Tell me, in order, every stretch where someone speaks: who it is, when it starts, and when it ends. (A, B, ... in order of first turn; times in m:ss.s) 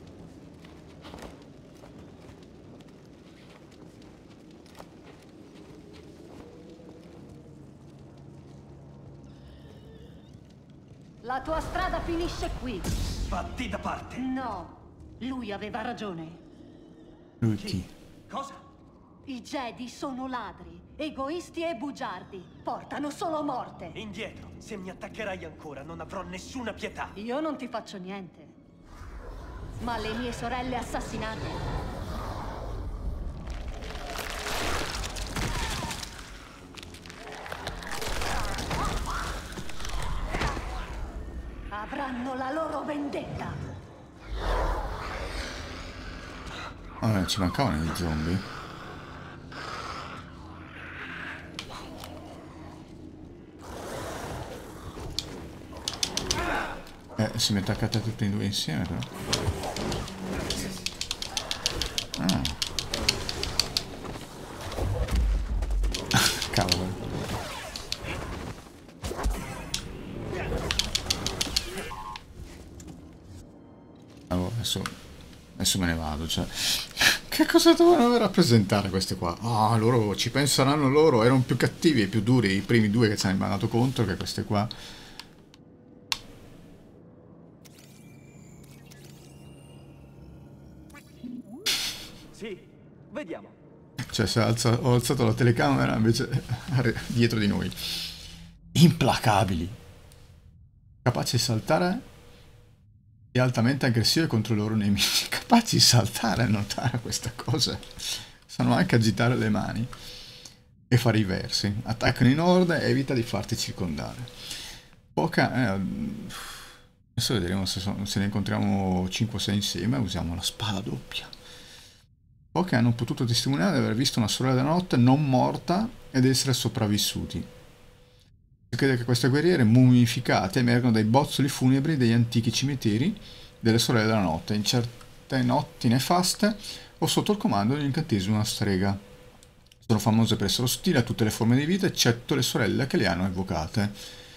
0:11.2-0:12.9 A
0:13.3-0:14.3 B
0:14.2-0:16.4 A
0:17.4-0:17.9 C
0:17.6-0:18.6 B
0:19.2-0:24.0 A
0:23.9-0:27.2 B
0:27.1-0:28.6 A
0:29.8-0:31.7 A
0:41.7-0:43.6 A
0:47.0-0:48.4 C
0:57.2-0:59.1 C
1:02.2-1:02.6 C
1:06.1-1:07.1 C
1:14.3-1:15.0 C
1:15.6-1:24.7 C
1:32.3-1:33.6 B
1:34.0-1:39.8 C
1:41.0-1:42.0 C
1:43.3-1:49.9 C
1:50.9-1:54.6 C
1:55.1-2:01.3 C
2:02.5-2:07.5 C
2:08.7-2:19.0 C
2:19.8-2:24.0 C